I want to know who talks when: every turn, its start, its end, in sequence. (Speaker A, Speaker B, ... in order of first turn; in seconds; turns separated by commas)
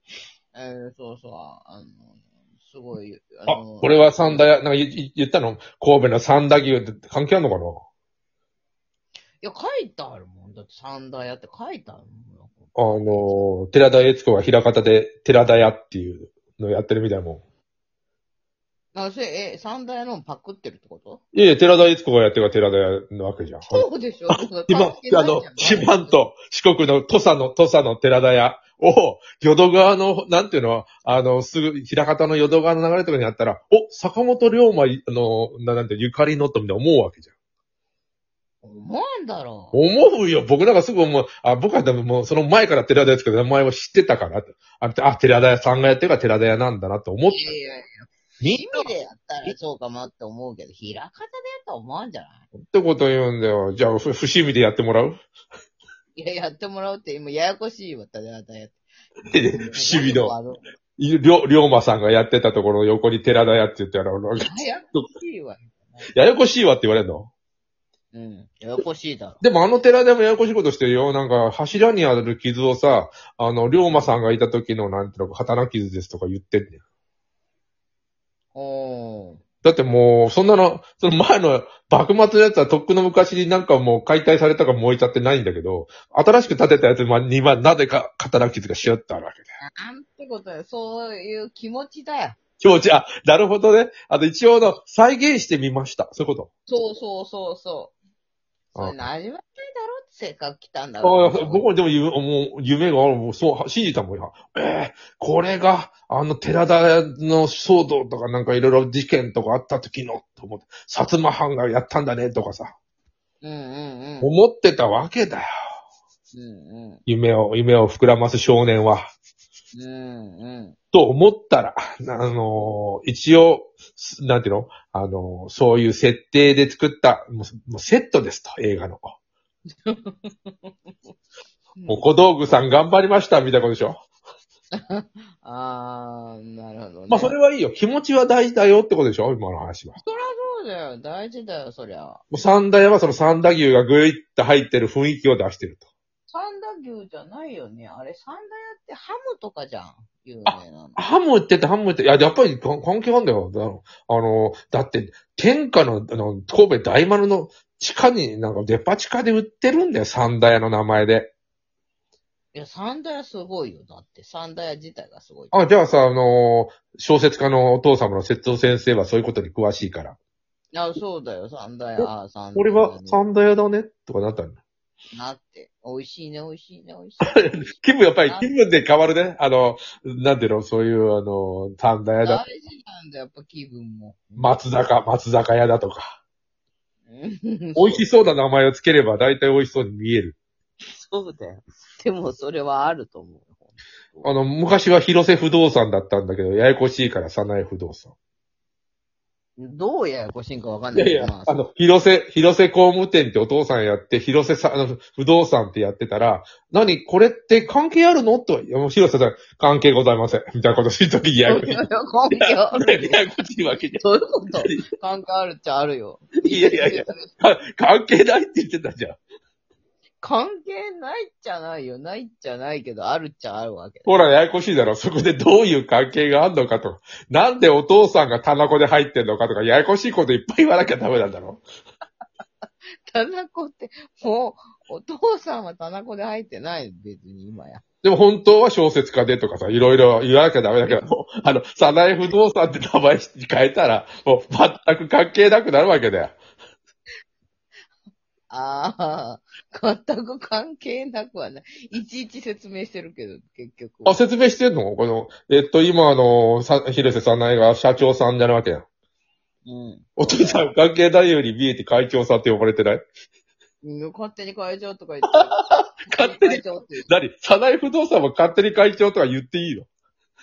Speaker A: 0.5-4.4, Speaker B: 3.5-7.8, Speaker A: 9.4-13.4, Speaker B: 12.8-17.4, Speaker A: 18.9-21.2, Speaker B: 21.3-37.3, Speaker A: 23.7-26.2, Speaker A: 38.6-39.8, Speaker B: 39.7-47.5, Speaker A: 47.3-52.4, Speaker B: 48.4-48.9, Speaker B: 52.6-55.2, Speaker A: 56.1-58.8, Speaker B: 59.3-60.3, Speaker A: 59.5-60.7, Speaker B: 61.0-65.1, Speaker A: 64.4-66.1, Speaker B: 66.1-67.3, Speaker A: 68.1-69.4, Speaker B: 69.4-76.8, Speaker A: 78.5-79.4, Speaker B: 79.6-89.4, Speaker A: 89.8-92.4, Speaker B: 92.6-96.5, Speaker A: 96.7-98.0, Speaker A: 98.8-101.7, Speaker B: 101.0-112.7, Speaker A: 113.4-114.3, Speaker B: 114.2-115.5, Speaker A: 116.3-117.0, Speaker B: 117.0-119.0, Speaker A: 119.7-120.8, Speaker B: 120.9-129.0, Speaker A: 129.9-130.7, Speaker A: 131.8-132.1, Speaker B: 131.9-134.0, Speaker A: 134.8-137.4, Speaker B: 137.1-140.0, Speaker A: 140.0-142.2, Speaker B: 142.3-145.8, Speaker A: 146.3-151.0, Speaker B: 150.5-161.3, Speaker A: 162.5-165.5, Speaker B: 165.5-170.2, Speaker A: 170.7-173.2, Speaker B: 172.0-174.6, Speaker A: 175.1-177.7, Speaker B: 177.2-182.4, Speaker A: 178.2-178.5, Speaker A: 182.2-184.6, Speaker B: 184.4-186.1, Speaker A: 187.1-188.0, Speaker B: 187.8-190.4, Speaker A: 190.9-194.3, Speaker B: 194.2-198.1, Speaker A: 199.6-201.6, Speaker B: 200.9-211.8, Speaker A: 211.4-213.2, Speaker B: 212.3-214.1, Speaker A: 214.0-217.3, Speaker B: 216.4-219.2, Speaker A: 220.2-224.2, Speaker B: 224.1-231.6, Speaker A: 233.1-237.8, Speaker B: 238.0-246.4, Speaker A: 240.9-241.1, Speaker A: 248.5-254.2, Speaker B: 254.1-258.9, Speaker A: 259.6-260.6, Speaker B: 260.2-263.0, Speaker A: 263.8-267.1, Speaker B: 266.1-269.9